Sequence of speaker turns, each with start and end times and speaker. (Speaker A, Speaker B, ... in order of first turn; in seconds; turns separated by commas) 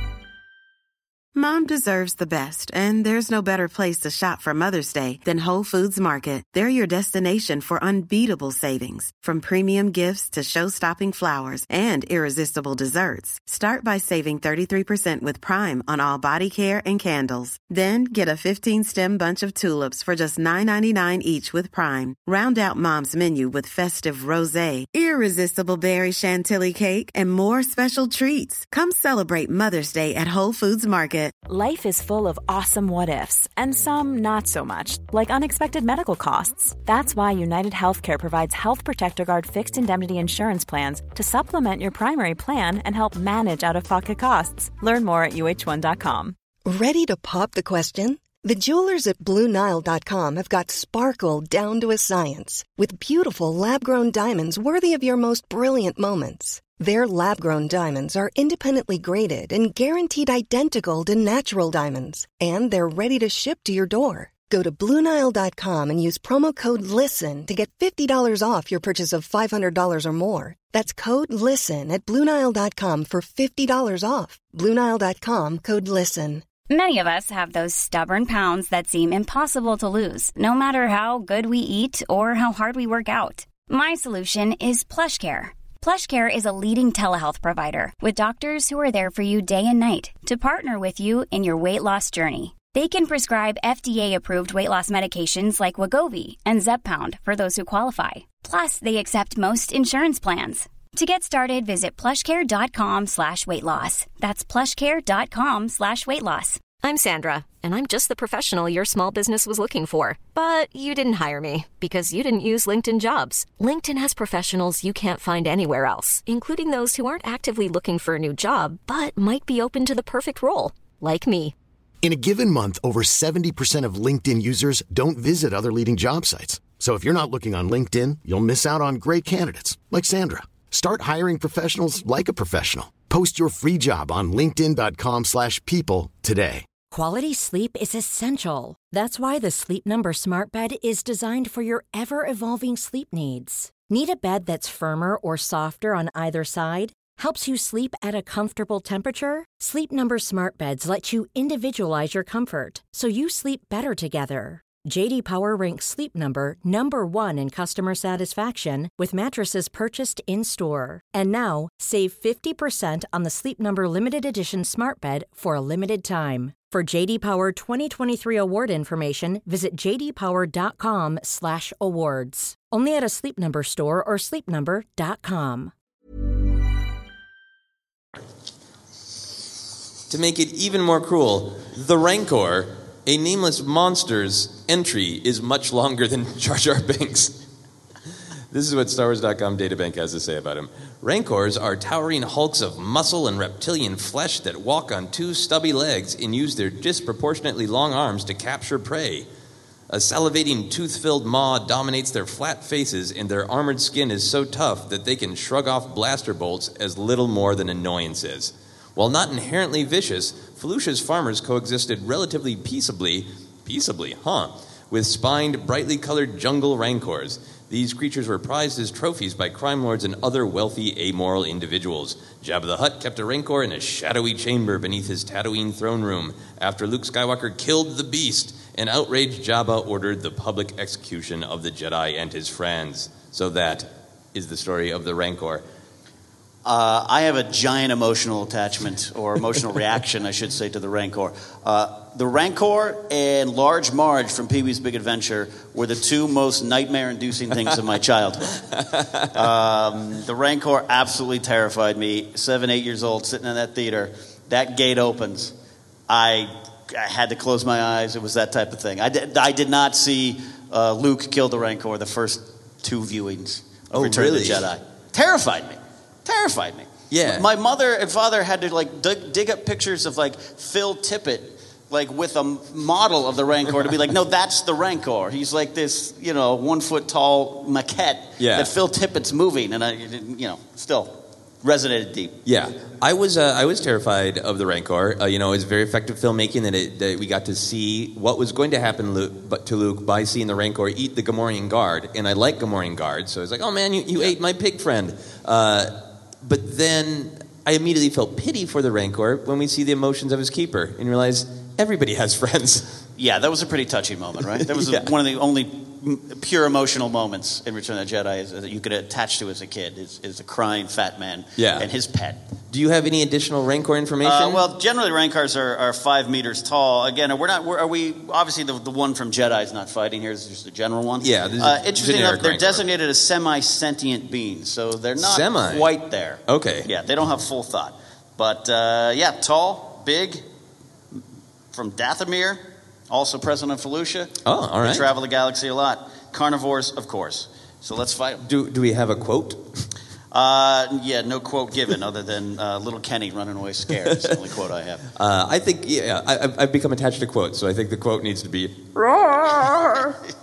Speaker A: 1.3-31.3, Speaker B: 31.5-46.4, Speaker C: 46.6-76.4, Speaker D: 76.7-106.7, Speaker E: 106.8-121.5, Speaker F: 122.0-136.7, Speaker G: 136.9-175.7, Speaker H: 180.1-187.4, Speaker H: 188.5-199.3, Speaker H: 199.9-235.6, Speaker I: 236.6-248.6, Speaker H: 248.9-249.2, Speaker I: 249.3-255.5, Speaker I: 256.1-282.4, Speaker H: 263.9-264.7, Speaker H: 267.1-267.4, Speaker H: 278.4-278.7, Speaker H: 282.4-302.9, Speaker I: 303.2-312.4, Speaker H: 304.6-305.1, Speaker H: 311.6-311.9, Speaker H: 312.7-314.6, Speaker I: 314.2-330.4, Speaker H: 321.2-322.8, Speaker H: 325.2-325.9, Speaker H: 326.5-326.9, Speaker I: 331.7-338.4, Speaker H: 334.4-335.1, Speaker H: 338.4-339.7, Speaker I: 340.3-345.1, Speaker H: 345.1-350.2